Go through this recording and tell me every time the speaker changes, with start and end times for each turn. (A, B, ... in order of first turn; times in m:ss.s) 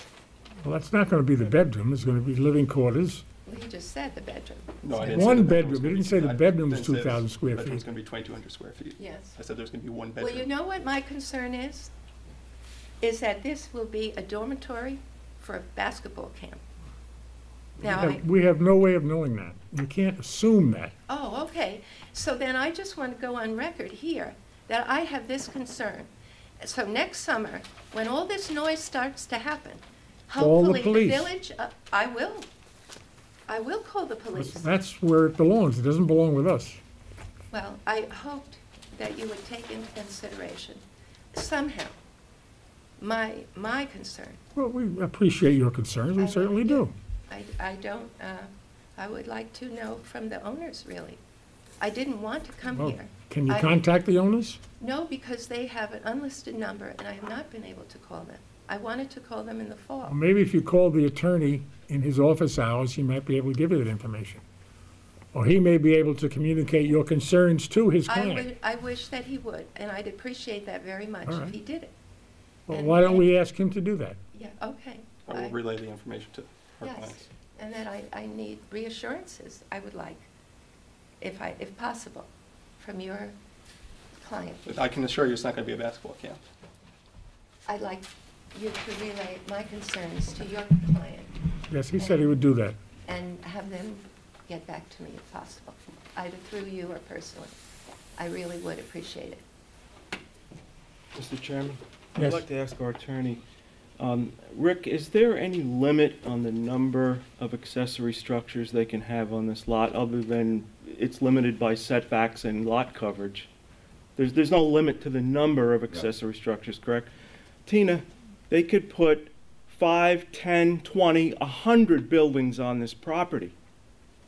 0:00.6-0:03.2 A
0:03.4-0:05.5 B
0:04.8-0:10.5 C
0:05.1-0:07.8 A
0:09.0-0:09.3 B
0:10.2-0:11.9 B
0:13.0-0:16.6 B
0:17.8-0:18.2 B
0:17.8-0:20.9 A
0:21.1-0:32.5 B
0:30.4-0:31.3 A
0:33.5-0:34.7 B
0:34.3-0:36.8 A
0:37.5-0:42.0 B
0:43.0-0:44.4 B
0:44.5-0:46.9 A
0:46.2-0:51.2 B
0:51.8-0:53.8 B
0:52.7-0:54.6 A
0:54.8-1:00.2 B
1:00.0-1:04.4 A
1:05.3-1:08.5 A
1:08.1-1:11.9 B
1:11.2-1:11.6 A
1:12.7-1:14.2 A
1:12.7-1:13.3 B
1:14.3-1:15.6 B
1:15.2-1:17.3 C
1:16.8-1:20.3 B
1:21.2-1:23.4 B
1:24.2-1:24.6 B
1:24.6-1:26.4 C
1:27.6-1:31.4 B
1:31.7-1:32.8 A
1:31.9-1:32.4 B
1:33.0-1:37.5 B
1:38.2-1:39.4 B
1:41.1-1:43.4 D
1:42.2-1:42.4 A
1:44.0-1:53.5 D
1:54.2-1:57.1 D
1:57.6-2:03.5 D